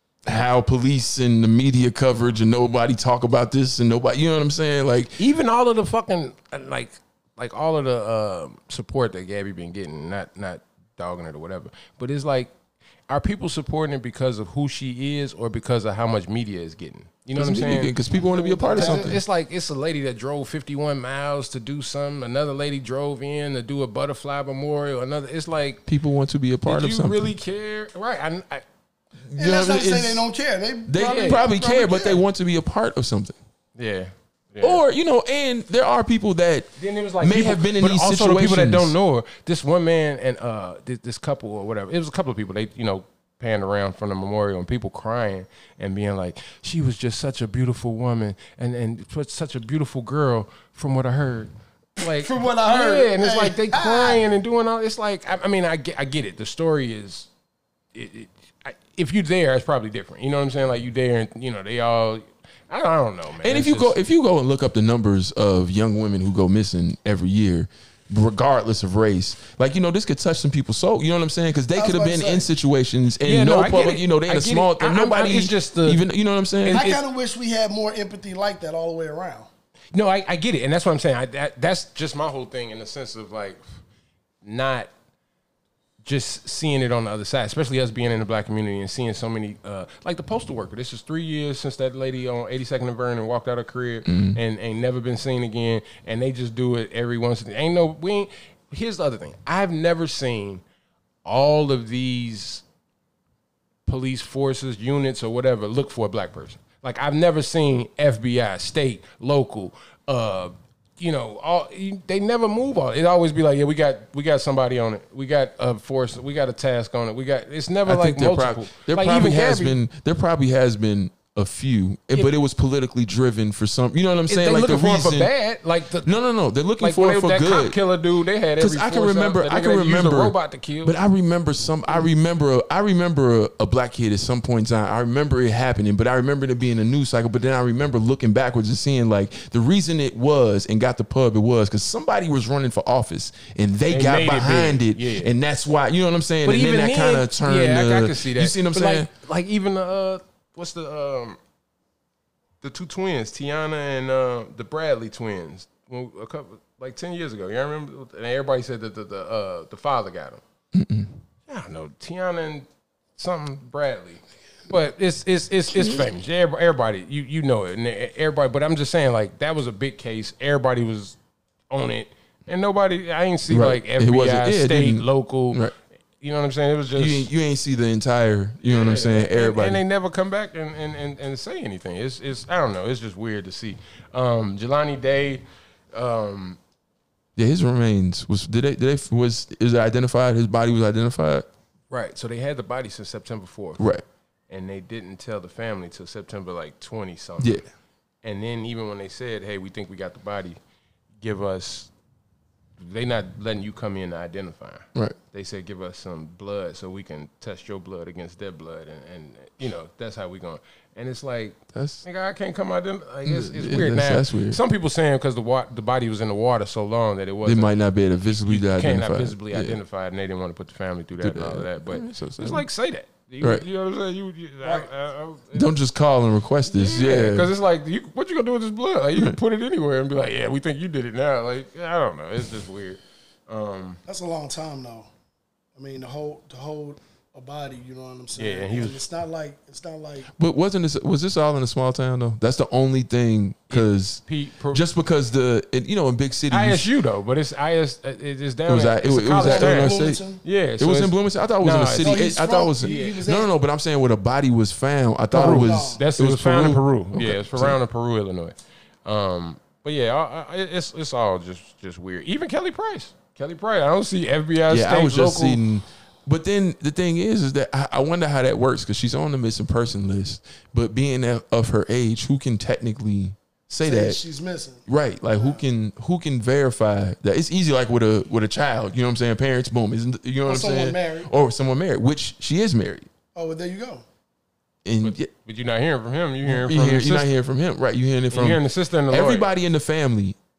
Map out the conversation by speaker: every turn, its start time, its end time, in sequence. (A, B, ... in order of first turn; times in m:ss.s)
0:00.2-0:05.2 A
0:05.2-0:12.5 B
0:13.1-0:25.8 B
0:17.3-0:19.2 A
0:18.7-0:19.1 C
0:25.8-0:27.3 A
0:26.6-0:28.6 B
0:29.3-0:30.2 A
0:29.4-0:32.2 C
0:30.8-0:33.4 A
0:31.0-0:31.4 B
0:33.8-0:34.8 B
0:34.6-0:38.9 A
0:36.8-0:57.3 B
0:52.1-0:54.2 C
0:57.9-1:03.9 B
1:03.4-1:16.9 A
1:11.7-1:12.5 C
1:13.2-1:16.0 B
1:16.6-1:17.0 B
1:16.7-1:19.5 C
1:19.9-1:23.6 B
1:24.4-1:24.9 B
1:26.0-1:40.6 B
1:34.1-1:34.4 A
1:41.2-1:42.6 B
1:43.8-1:59.8 B
1:57.8-2:05.3 A
2:04.3-2:06.1 B
2:06.0-2:07.8 A
2:06.8-2:11.0 B
2:08.6-2:29.1 A
2:23.9-2:25.3 B
2:26.4-2:31.4 B
2:32.6-2:40.4 B
2:40.7-2:41.2 A
2:41.5-2:51.2 B
2:45.7-2:46.1 A
2:51.7-2:55.7 B
2:53.5-2:55.7 A
2:56.2-2:57.3 B
2:57.0-2:59.8 A
2:58.7-3:06.6 B
3:07.4-3:11.5 A
3:11.9-3:13.8 B
3:13.8-3:14.0 A
3:14.5-3:17.6 B
3:17.4-3:17.6 A
3:18.2-3:20.6 B
3:21.2-3:21.9 B
3:22.8-3:37.8 B
3:31.7-3:32.0 A
3:33.2-3:34.6 A
3:37.4-3:39.8 A
3:38.3-3:45.7 B
3:41.2-3:42.6 A
3:44.6-3:44.9 C
3:45.5-3:47.5 A
3:46.7-3:54.0 B
3:54.1-3:55.1 C
3:55.8-4:00.3 C
3:58.4-3:59.0 B
4:00.4-4:06.9 A
4:03.7-4:04.8 B
4:06.5-4:12.2 B
4:08.7-4:10.2 A
4:09.4-4:10.4 C
4:10.8-4:17.8 A
4:12.0-4:13.5 C
4:12.8-4:13.2 B
4:15.3-4:16.0 C
4:15.4-4:25.6 B
4:24.7-4:34.2 A
4:33.8-4:35.6 C
4:34.8-4:43.1 A
4:40.4-4:41.3 C
4:43.3-4:44.0 C
4:44.8-4:45.3 A
4:45.0-4:47.3 B
4:46.4-4:50.4 A
4:48.3-4:49.5 B